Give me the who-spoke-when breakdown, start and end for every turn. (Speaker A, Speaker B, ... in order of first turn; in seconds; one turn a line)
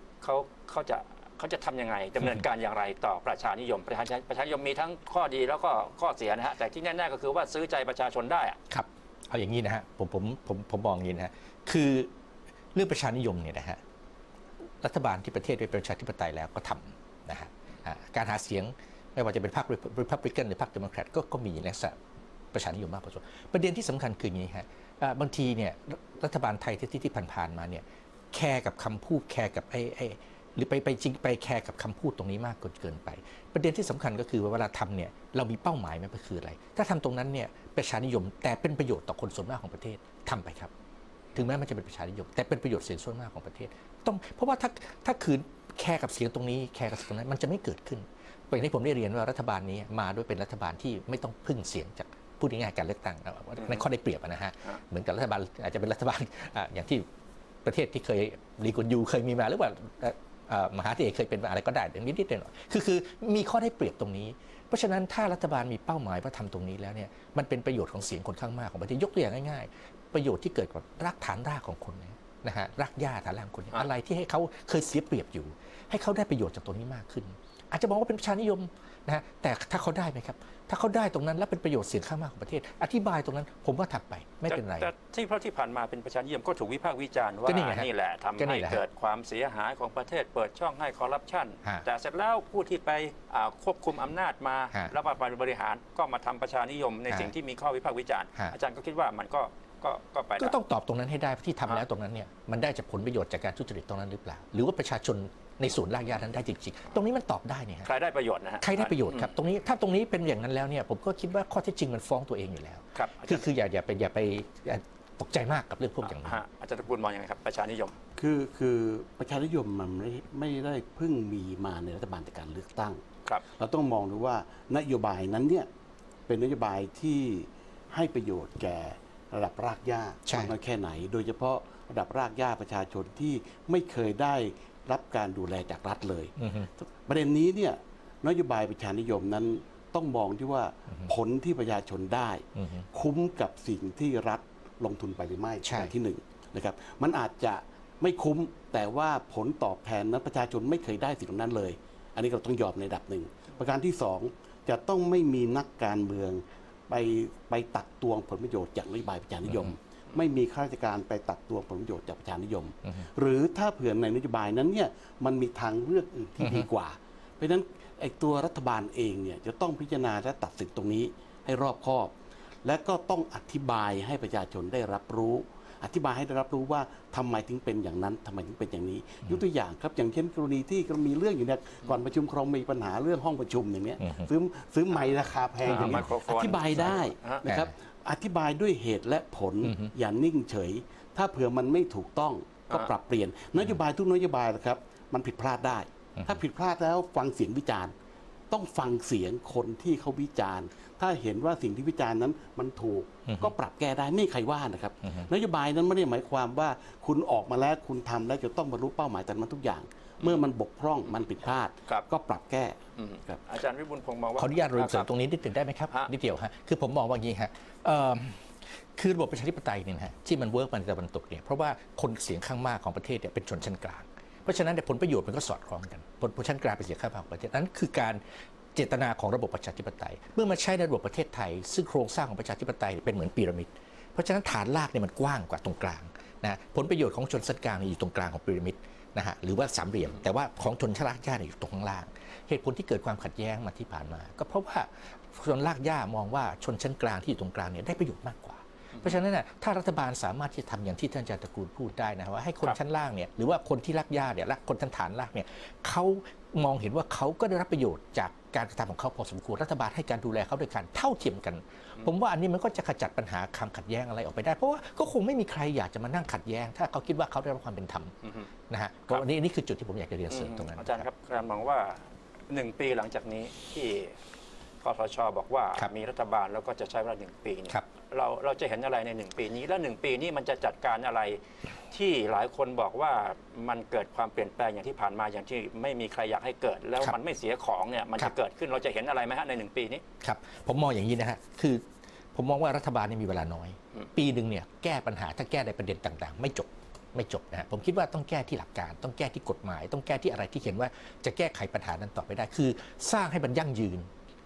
Speaker A: 0.2-8.6
Speaker B: 8.7-12.1
Speaker B: 12.7-13.8
Speaker B: 14.8-22.0
Speaker B: 22.5-40.7
Speaker B: 41.3-57.0
Speaker B: 57.6-84.9
Speaker A: 84.5-100.5
Speaker B: 87.5-88.8
Speaker B: 100.4-107.9
Speaker A: 107.8-109.3
Speaker B: 108.6-116.4
Speaker A: 112.9-113.5
Speaker A: 116.0-117.9
Speaker C: 118.2-123.0
Speaker C: 123.5-125.7
Speaker C: 126.3-172.1
Speaker B: 130.3-130.5
Speaker B: 136.4-136.7
Speaker B: 142.6-142.8
Speaker B: 145.6-145.9
Speaker B: 159.5-159.7
Speaker B: 166.4-166.7
Speaker C: 172.6-197.9
Speaker B: 184.0-184.3
Speaker A: 185.6-187.4
Speaker B: 185.7-186.1
Speaker B: 187.4-187.7
Speaker B: 189.6-189.9
Speaker C: 198.5-213.4
Speaker A: 212.9-215.1
Speaker B: 214.4-228.2
Speaker B: 228.7-268.1
Speaker B: 268.7-271.1
Speaker A: 270.3-274.1
Speaker A: 274.8-290.0
Speaker B: 290.2-304.1